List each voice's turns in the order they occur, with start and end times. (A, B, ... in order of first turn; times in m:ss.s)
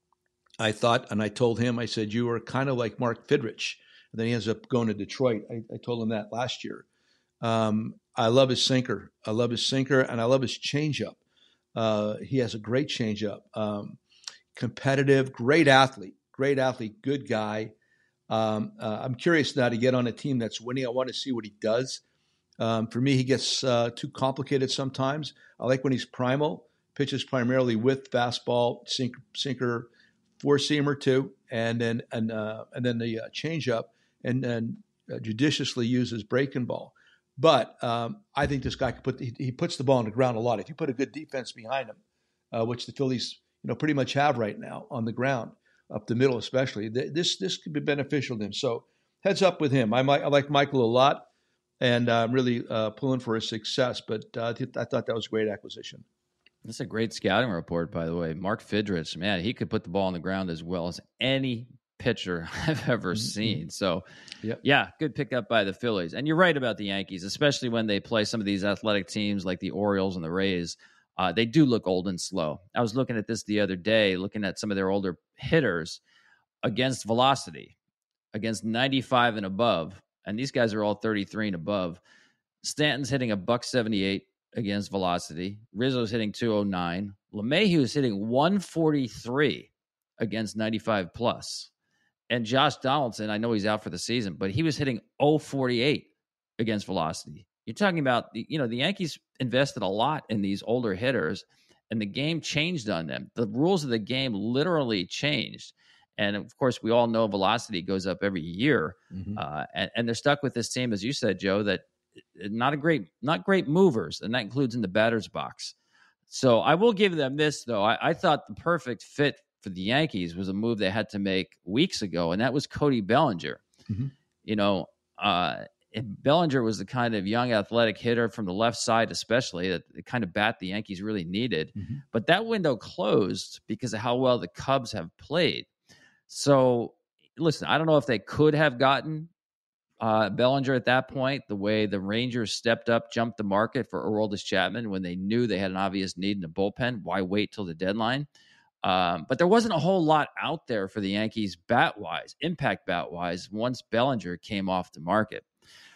0:00.6-0:06.8 A
0:07.4-0:11.2 A
0:11.7-0:14.0 A
0:14.5-0:17.7 A
0:18.3-0:22.0 A
0:22.6-0:42.0 A
0:42.5-0:51.3 A
0:51.8-0:56.0 A
0:56.6-1:04.0 B
1:03.1-1:03.6 A
1:04.6-1:16.0 B
1:16.6-1:17.7 B
1:18.3-1:22.0 B
1:22.6-1:31.7 B
1:32.3-1:51.8 B
1:49.1-1:49.4 A
1:52.4-1:55.7 B
1:56.3-2:03.6 B
2:04.4-2:15.7 B
2:11.8-2:12.0 A
2:16.3-2:19.3 B
2:20.0-2:28.3 B
2:28.8-2:35.4 B